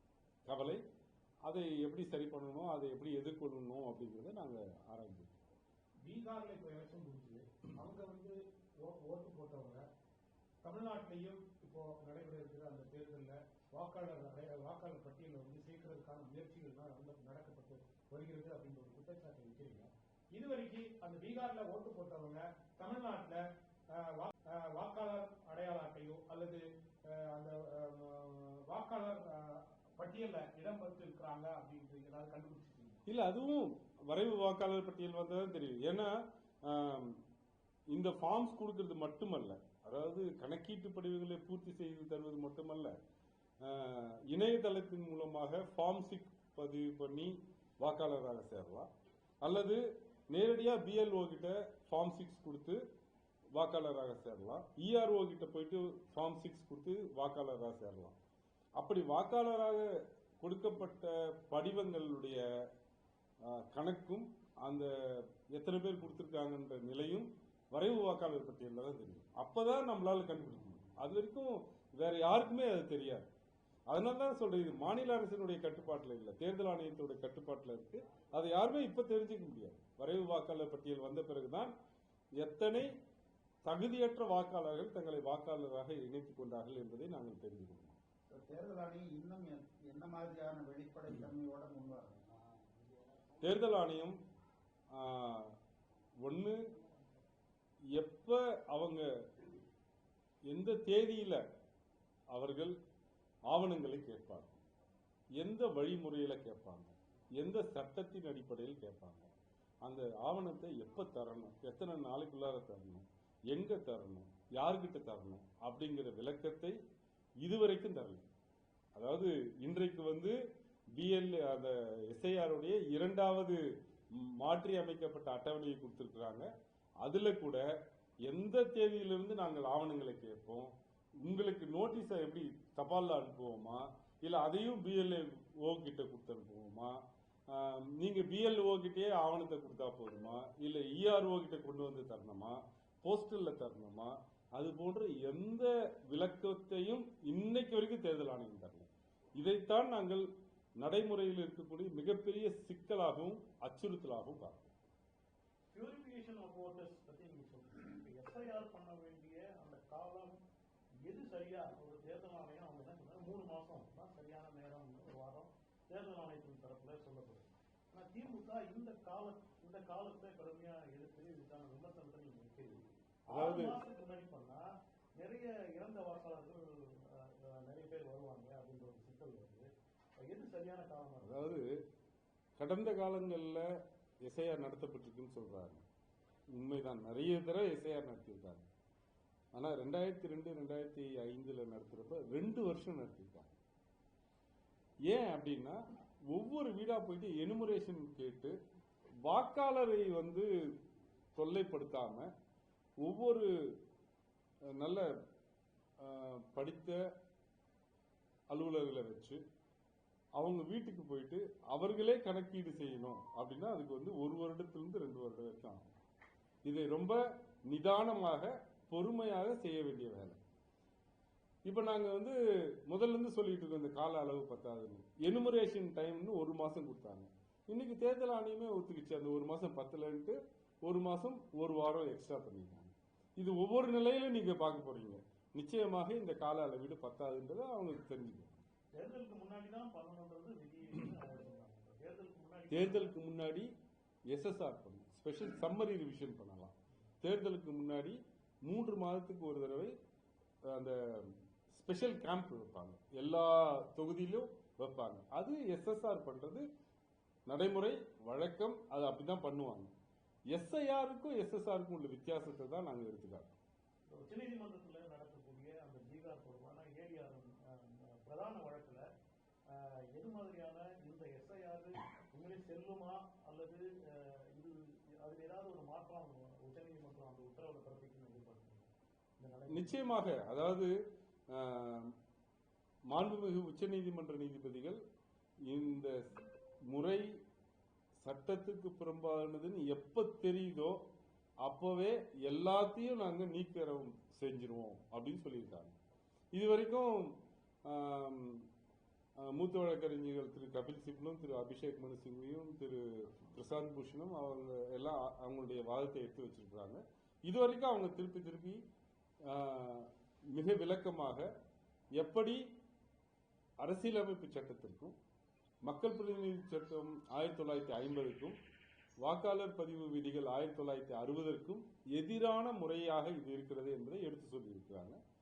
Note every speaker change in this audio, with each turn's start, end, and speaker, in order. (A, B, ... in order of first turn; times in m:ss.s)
0:00.5-0:00.8 A
0:01.4-0:05.4 A
0:06.0-0:09.8 B
0:10.6-0:23.4 B
0:23.9-0:33.0 B
0:33.1-0:37.2 A
0:37.9-0:43.0 A
0:43.6-0:48.9 A
0:49.4-0:52.8 A
0:53.5-0:58.2 A
0:58.8-0:59.9 A
1:00.4-1:02.4 A
1:03.4-1:13.2 A
1:13.9-1:21.7 A
1:22.4-1:22.9 A
1:23.6-1:28.0 A
1:28.3-1:32.4 C
1:33.4-1:34.2 A
1:34.9-1:35.6 A
1:36.2-1:36.6 A
1:37.9-1:39.5 A
1:40.5-1:41.4 A
1:42.3-1:42.8 A
1:43.5-1:44.6 A
1:45.4-1:49.3 A
1:49.8-1:56.8 A
1:57.4-1:58.2 A
1:59.0-2:00.4 A
2:01.0-2:03.6 A
2:04.1-2:06.5 A
2:07.0-2:07.6 A
2:08.2-2:17.0 A
2:17.5-2:30.3 A
2:30.8-2:34.7 A
2:35.7-2:40.4 D
2:41.0-2:54.6 D
2:53.3-2:53.8 A
2:55.2-2:59.7 D
3:00.2-3:01.5 D
3:01.2-3:01.8 A
3:02.6-3:03.7 A
3:04.2-3:05.8 A
3:06.5-3:08.6 A
3:09.5-3:13.6 A
3:15.1-3:18.5 A
3:19.2-3:20.7 A
3:21.3-3:22.3 A
3:23.0-3:23.8 A
3:24.8-3:25.1 A
3:26.0-3:27.0 A
3:28.5-3:29.4 A
3:30.4-3:36.0 A
3:36.6-3:40.4 A
3:41.6-3:58.6 A
3:59.0-4:03.2 D
4:02.7-4:03.7 A
4:04.3-4:09.9 A
4:10.7-4:16.7 A
4:17.5-4:19.9 A
4:20.5-4:23.6 A
4:24.1-4:29.0 D
4:29.7-4:40.0 D
4:39.7-4:40.9 A
4:41.5-4:42.2 A
4:43.1-4:45.0 A
4:45.6-4:46.2 A
4:46.9-4:47.3 A
4:48.2-4:51.0 A
4:51.6-4:55.9 A
4:56.5-4:58.7 A
4:59.4-5:08.8 A
5:09.4-5:11.5 A
5:12.2-5:12.6 A
5:13.8-5:15.2 A
5:15.8-5:18.6 A
5:19.2-5:25.2 A